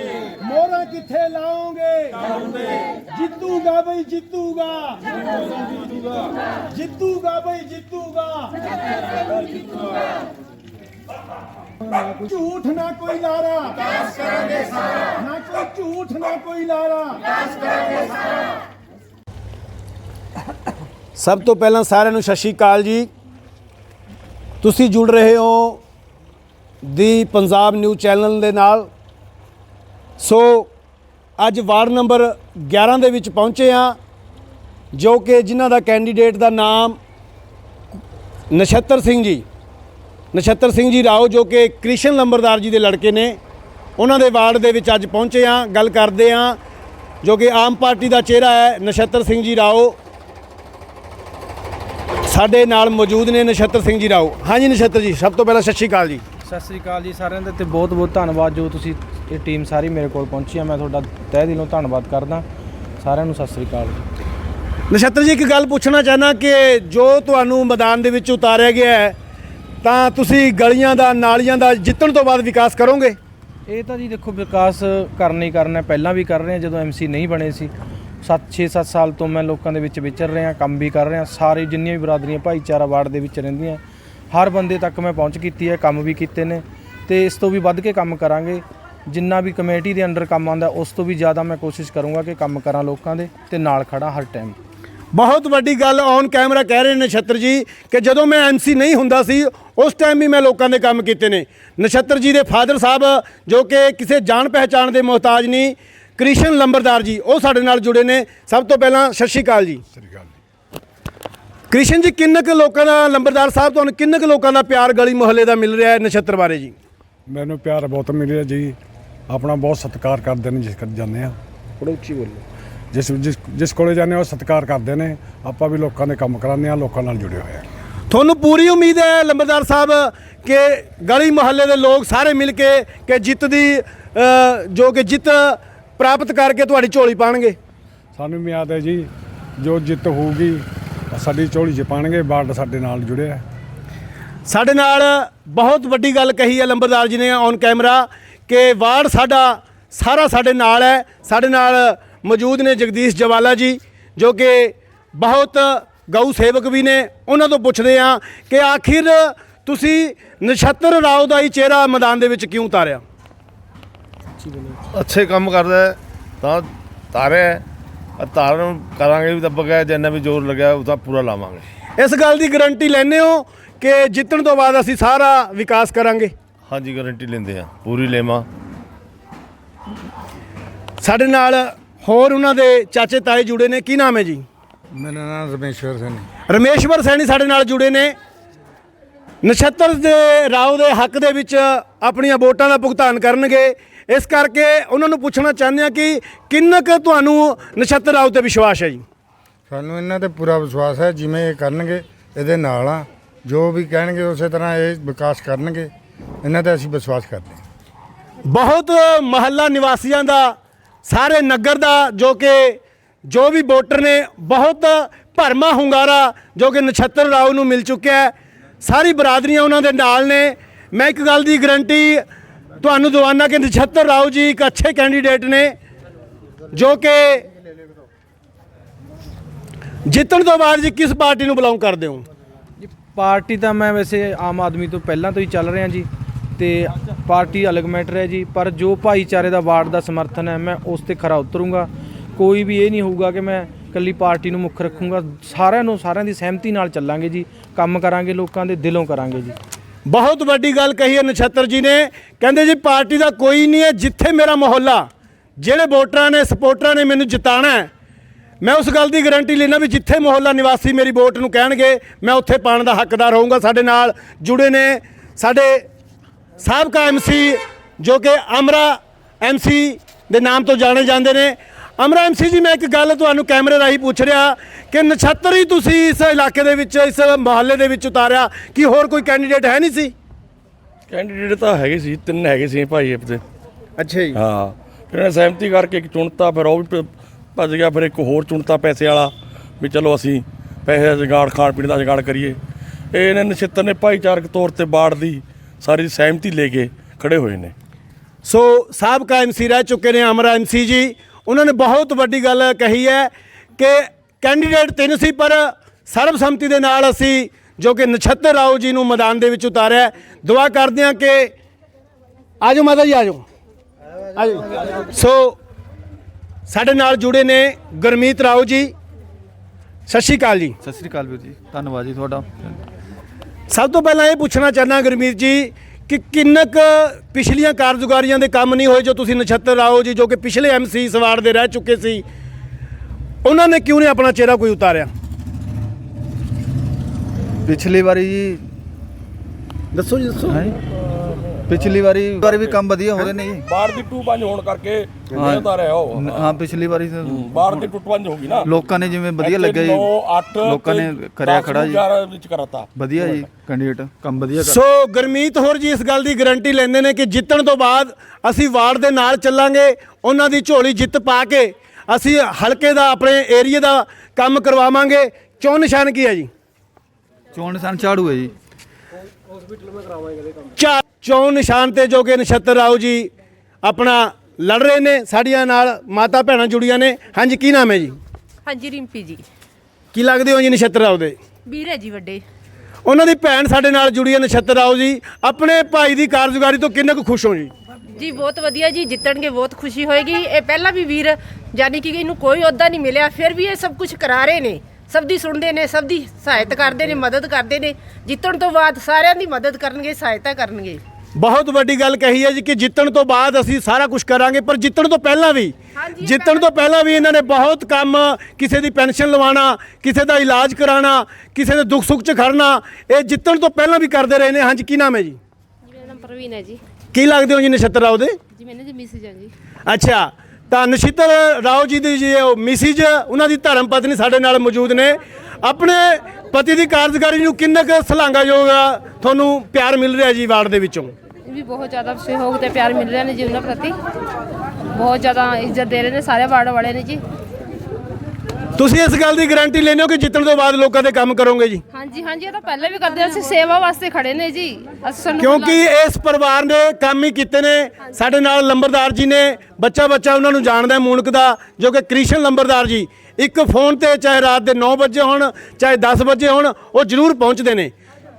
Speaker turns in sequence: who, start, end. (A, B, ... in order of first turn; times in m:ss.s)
0:00.2-0:05.1 A
0:06.7-0:08.6 A
0:12.1-0:14.6 A
0:15.1-0:17.4 A
0:21.2-0:23.1 A
0:24.6-0:25.8 A
0:26.8-0:28.9 A
0:30.2-0:30.7 A
0:31.4-0:34.0 A
0:34.9-0:37.0 A
0:38.5-0:39.4 A
0:40.3-0:43.4 A
0:44.0-0:46.6 A
0:47.2-0:50.0 A
0:52.2-0:56.2 A
0:56.4-1:02.4 B
1:03.0-1:04.0 B
1:04.9-1:09.2 A
1:09.8-1:13.2 A
1:13.7-1:17.7 B
1:18.2-1:34.6 B
1:35.1-1:49.8 A
1:50.0-1:50.3 C
1:51.7-1:56.7 A
1:57.3-1:58.8 C
1:59.3-2:01.4 C
2:01.8-2:02.4 A
2:02.9-2:07.6 C
2:08.1-2:17.6 A
2:18.1-2:19.1 C
2:19.6-2:23.4 C
2:24.4-2:43.0 A
2:44.9-2:47.6 D
2:48.2-2:51.6 D
2:52.0-2:56.3 A
2:56.7-2:58.4 D
3:01.0-3:04.4 A
3:04.9-3:06.3 E
3:06.5-3:08.2 A
3:09.4-3:19.0 A
3:19.7-3:25.9 E
3:26.4-3:27.6 E
3:28.4-3:42.2 A
3:42.8-3:45.8 A
3:46.7-3:47.5 A
3:50.1-3:52.2 A
3:52.8-4:09.6 B
4:10.0-4:17.9 A
4:18.6-4:25.9 A
4:26.6-4:40.1 A
4:41.1-4:43.4 F
4:44.0-4:44.4 A
4:44.3-4:52.6 F
4:53.1-4:57.7 F
4:58.4-5:11.5 A
5:12.6-5:13.4 A
5:14.3-5:15.6 A
5:16.7-5:18.9 A
5:20.1-5:20.8 A
5:20.8-5:22.8 G
5:23.7-5:32.2 A
5:33.4-5:35.1 A
5:37.6-5:38.7 G
5:39.9-5:40.3 A
5:40.4-5:40.7 G
5:41.2-5:41.6 F
5:41.7-5:43.7 G
5:42.4-5:42.8 F
5:43.6-5:46.6 F
5:45.3-5:47.9 G
5:47.2-5:48.7 F
5:48.6-5:52.0 G
5:49.4-5:53.3 F
5:52.9-5:54.8 G
5:54.6-6:06.5 A
6:07.5-6:08.5 G
6:10.8-6:13.3 A
6:13.8-6:18.2 A
6:18.7-6:19.4 H
6:20.1-6:21.4 A
6:21.7-6:22.4 H
6:23.0-6:27.7 A
6:28.2-6:37.9 H
6:36.4-6:37.7 I
6:38.3-6:38.5 I
6:38.5-6:41.0 H
6:41.3-6:55.4 A
6:55.9-6:56.8 I
6:57.1-6:58.4 A
6:58.5-6:59.5 I
6:59.8-7:11.1 A
7:11.4-7:14.0 I
7:14.9-7:17.2 I
7:18.8-7:21.8 A
7:21.9-7:25.9 I
7:25.4-7:37.9 A